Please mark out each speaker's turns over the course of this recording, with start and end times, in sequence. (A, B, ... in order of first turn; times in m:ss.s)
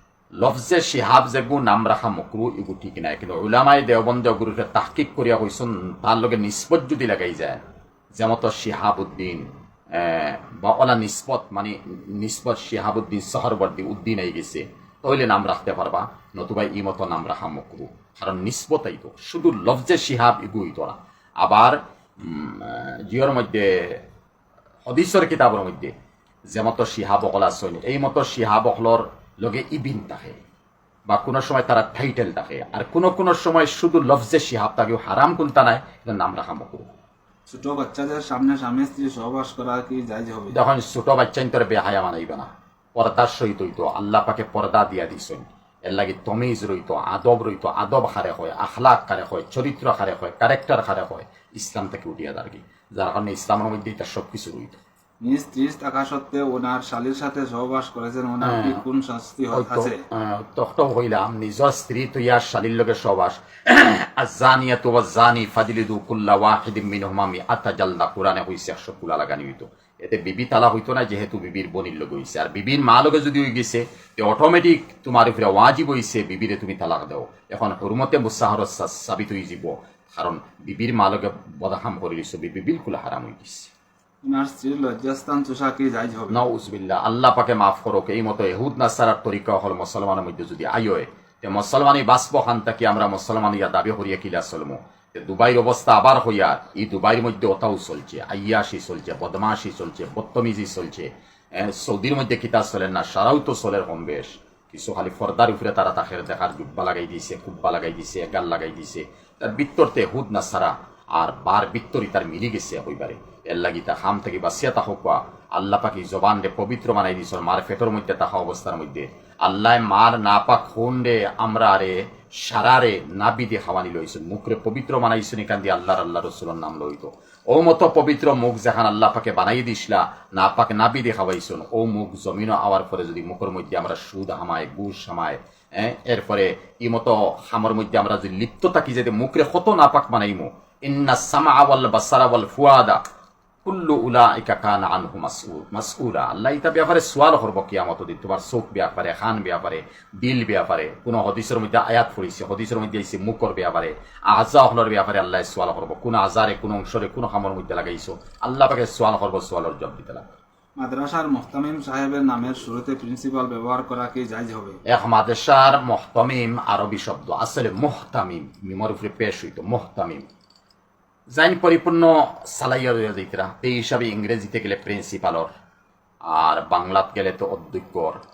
0:00.4-0:07.6 A
0:08.2-0:24.0 A
0:24.8-0:25.9 A
0:26.5-0:30.4 A
0:31.1-0:36.9 A
0:37.5-0:40.6 B
0:40.5-0:54.8 A
0:55.2-1:00.0 B
0:58.4-0:58.8 A
0:59.5-1:23.7 A
1:24.2-1:26.4 B
1:26.3-2:23.0 A
2:23.6-2:40.2 A
2:40.8-2:44.8 B
2:44.9-2:50.2 A
2:51.3-2:55.5 A
2:56.2-2:58.2 A